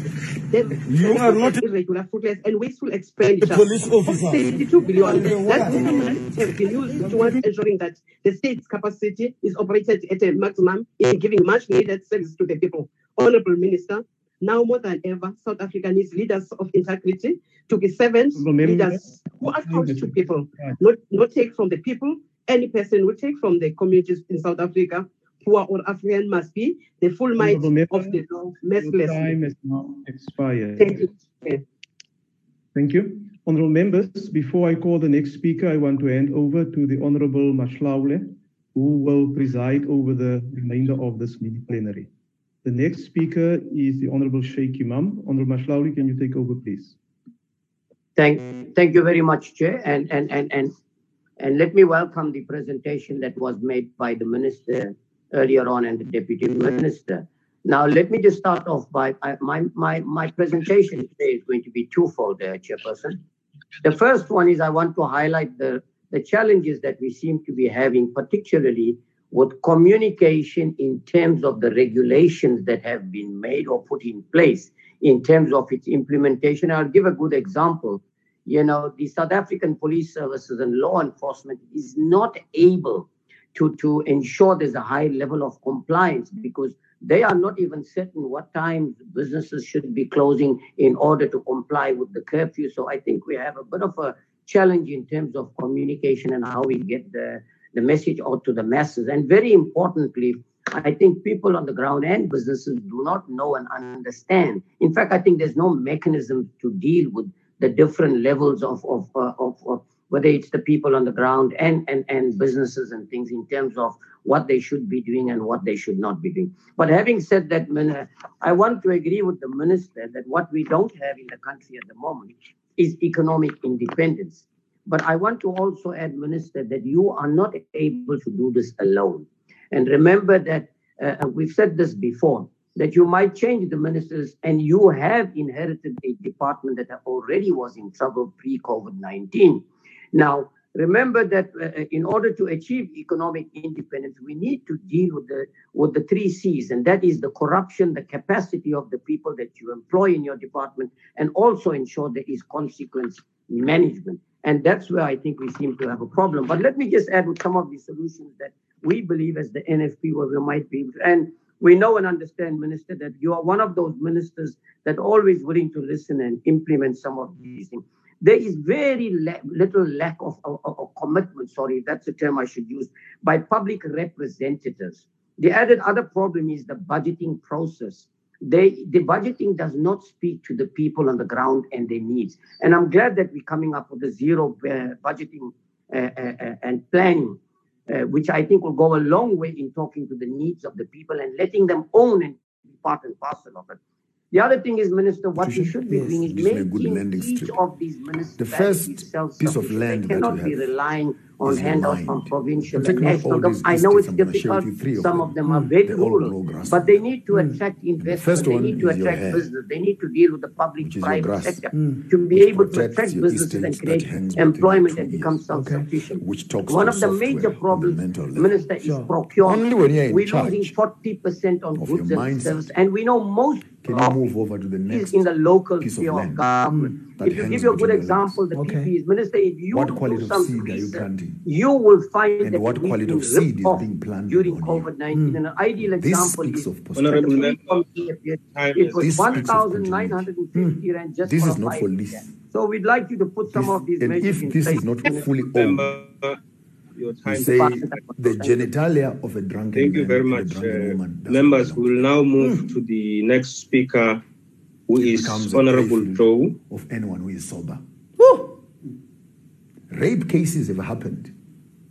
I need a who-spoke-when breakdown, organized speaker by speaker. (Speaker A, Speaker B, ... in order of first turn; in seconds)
Speaker A: 0.5-29.4
Speaker B: 18.3-20.8, 27.4-28.2, 28.8-31.1, 32.7-42.1, 42.6-47.0
Speaker C: 48.2-50.7, 51.4-63.2, 63.8-187.4, 187.9-193.8, 194.3-224.3, 224.8-245.3, 247.5-248.6
Speaker D: 195.3-197.6, 198.3-207.1, 208.0-209.5, 210.8-215.5, 216.1-220.8, 221.7-222.7, 223.6-228.5, 229.7-231.5, 232.4-237.5, 239.0-242.4, 243.4-246.1, 247.2-252.4, 254.9-257.8, 259.9-261.3
Speaker E: 236.9-239.0, 245.5-246.4, 246.9-248.0, 249.7-254.2, 254.9-256.6